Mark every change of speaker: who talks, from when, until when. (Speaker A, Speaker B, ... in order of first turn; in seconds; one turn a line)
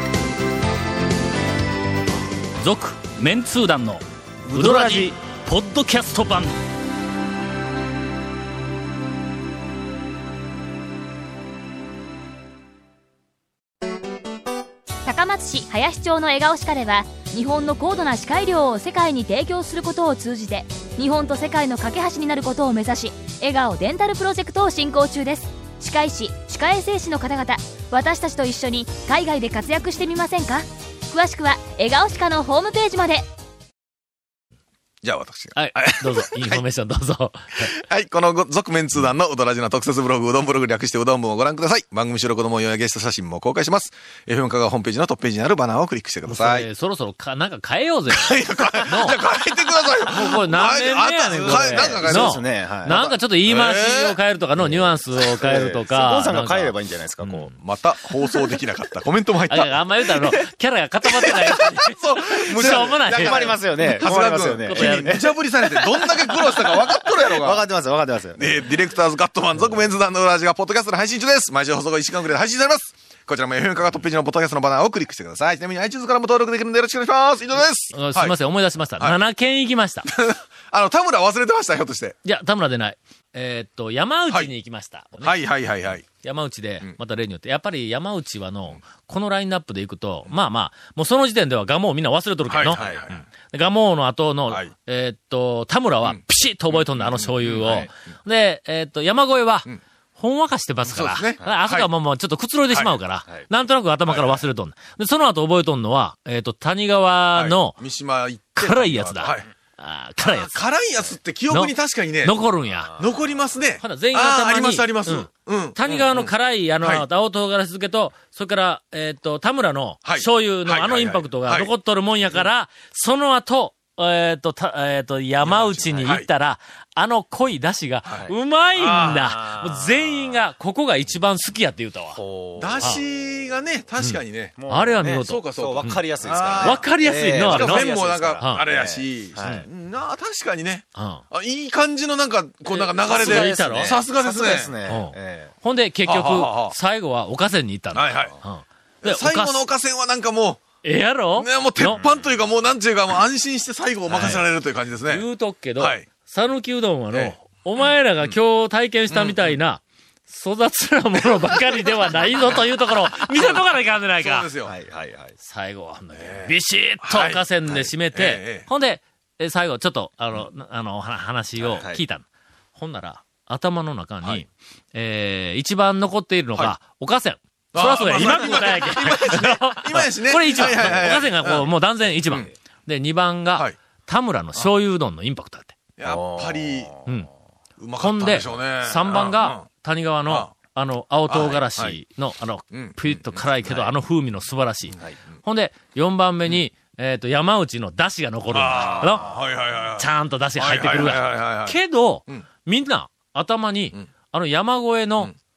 Speaker A: 2.6-6.5
Speaker B: 2.7-3.0
Speaker C: 4.5-5.1
Speaker B: 4.6-5.0
Speaker D: 15.1-33.2
Speaker E: 35.0-36.6
Speaker B: 35.5-37.7
Speaker E: 37.6-46.7
Speaker B: 46.2-49.2
Speaker E: 48.1-54.2
Speaker B: 50.0-57.5
Speaker C: 51.2-53.2
Speaker C: 54.6-57.5
Speaker E: 57.6-60.4
Speaker B: 59.5-65.2
Speaker E: 61.0-67.6
Speaker C: 62.5-68.6
Speaker E: 68.4-78.3
Speaker B: 77.9-80.0
Speaker E: 80.1-82.2
Speaker B: 82.2-85.3
Speaker E: 85.2-86.1
Speaker B: 86.0-92.8
Speaker E: 92.5-93.2
Speaker C: 92.7-93.2
Speaker B: 93.5-107.8
Speaker E: 96.0-97.9
Speaker C: 97.6-97.9
Speaker E: 100.8-101.9
Speaker E: 102.7-103.0
Speaker E: 104.1-104.4
Speaker E: 107.3-109.5
Speaker B: 108.5-110.7
Speaker E: 110.2-112.3
Speaker B: 111.5-112.9
Speaker C: 112.6-113.4
Speaker E: 113.0-117.0
Speaker B: 113.8-132.2
Speaker E: 120.0-121.7
Speaker E: 125.4-126.3
Speaker C: 125.7-126.2
Speaker E: 128.1-129.3
Speaker C: 129.1-130.4
Speaker C: 132.1-133.1
Speaker E: 132.6-134.5
Speaker B: 134.0-136.0
Speaker C: 134.6-139.6
Speaker E: 135.2-136.9
Speaker B: 136.6-138.7
Speaker E: 137.4-144.7
Speaker B: 140.9-141.2
Speaker B: 142.7-144.0
Speaker C: 143.0-145.5
Speaker B: 144.8-149.6
Speaker E: 146.1-146.7
Speaker E: 147.9-148.4
Speaker E: 149.0-150.6
Speaker B: 150.8-152.0
Speaker E: 151.3-155.2
Speaker B: 154.1-154.4
Speaker C: 154.1-154.4
Speaker B: 155.1-164.5
Speaker E: 155.8-156.1
Speaker E: 157.1-158.3
Speaker E: 159.1-159.5
Speaker E: 163.2-164.7
Speaker C: 164.6-165.3
Speaker B: 165.4-185.7
Speaker E: 166.1-167.4
Speaker E: 168.1-168.7
Speaker E: 177.7-181.7
Speaker E: 186.0-186.9
Speaker C: 186.0-187.1
Speaker E: 187.8-189.6
Speaker B: 188.0-199.3
Speaker E: 190.2-190.5
Speaker E: 191.3-192.0
Speaker E: 192.7-193.9
Speaker E: 198.5-200.1
Speaker C: 198.7-199.2
Speaker B: 199.9-205.3
Speaker E: 200.6-202.4